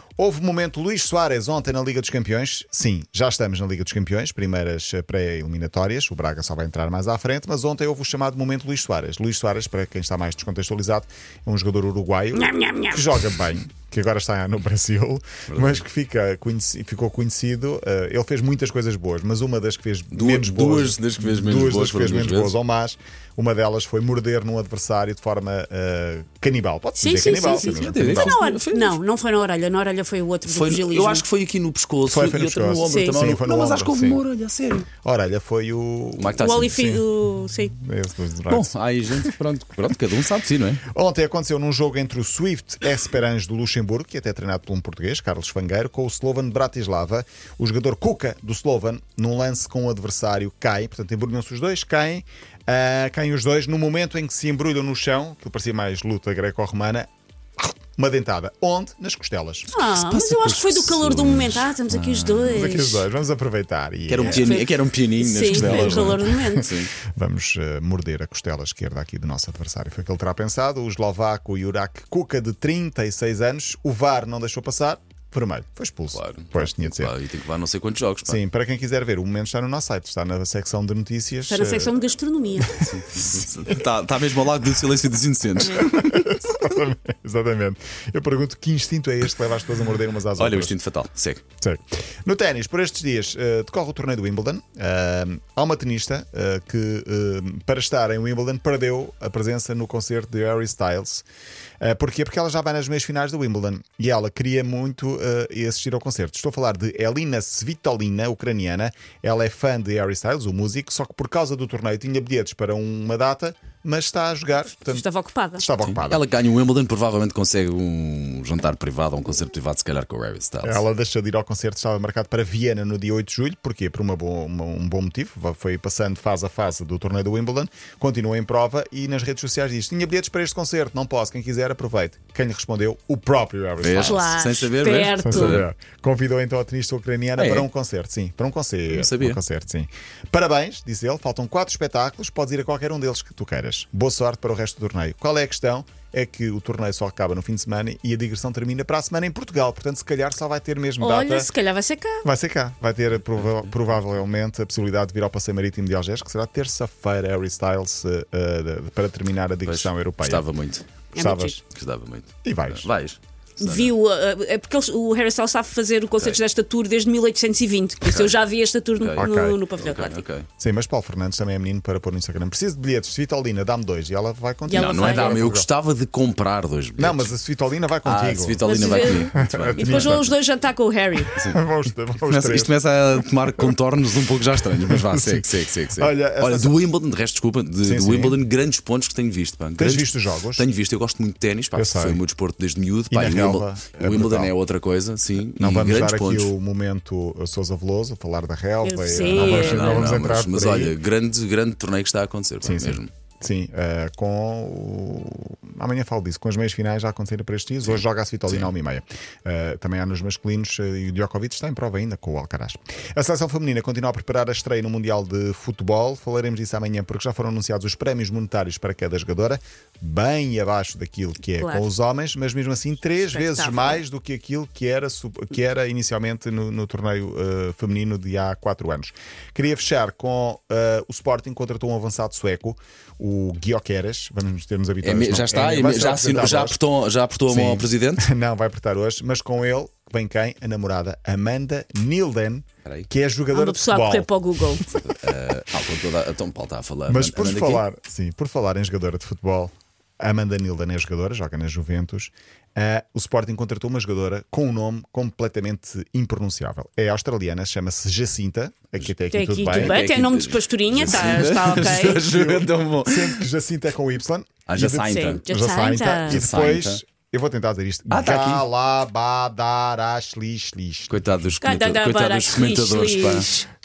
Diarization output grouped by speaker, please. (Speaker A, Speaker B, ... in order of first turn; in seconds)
Speaker A: 0.2-28.4, 32.0-34.2, 35.0-39.3, 40.9-57.1, 57.6-59.7, 62.5-64.6, 65.5-66.6, 67.1-77.1, 78.2-81.9, 82.6-83.8, 85.6-90.8, 91.6-101.2, 101.8-115.0, 115.6-116.2, 120.6-134.4, 135.2-151.5, 152.2-160.5, 161.2-161.6, 162.4-162.9, 169.2-169.6, 170.6-175.7, 177.0-180.3, 181.3-182.8, 184.8-186.8, 187.8-188.4, 189.8-190.7, 191.7-192.2, 193.1-194.5, 195.6-201.0, 202.6-236.8, 237.5-244.9, 247.1-260.0, 262.1-271.5
Speaker B: 12.3-13.2, 27.0-31.2, 32.8-33.2, 36.4-37.7, 59.7-63.0, 64.2-66.7, 81.5-82.8, 114.8-115.7, 133.9-135.6, 151.0-152.2, 161.1-161.6, 163.6-170.2, 174.7-175.3, 178.6-181.3, 198.8-200.1, 221.6-221.9, 223.2-224.0, 243.5-244.8, 259.3-262.3, 265.0-266.5, 271.6-273.7
Speaker C: 15.5-15.8, 20.1-22.5, 27.2-29.0, 30.4-34.9, 36.2-36.9, 38.5-40.8, 59.8-62.8, 64.1-66.9, 76.1-78.4, 82.7-86.3, 90.3-91.4, 115.8-120.8, 133.8-135.7, 137.4-137.7, 138.9-139.4, 153.2-153.9, 159.6-161.1, 161.7-163.9, 168.1-168.4, 169.0-169.3, 169.8-170.5, 174.7-177.3, 178.0-180.2, 181.3-181.6, 182.2-196.5, 199.1-203.1, 207.8-208.7, 235.0-238.3, 244.9-247.8, 259.6-263.4, 264.7-265.4, 266.2-267.0, 268.1-268.7, 271.1-273.5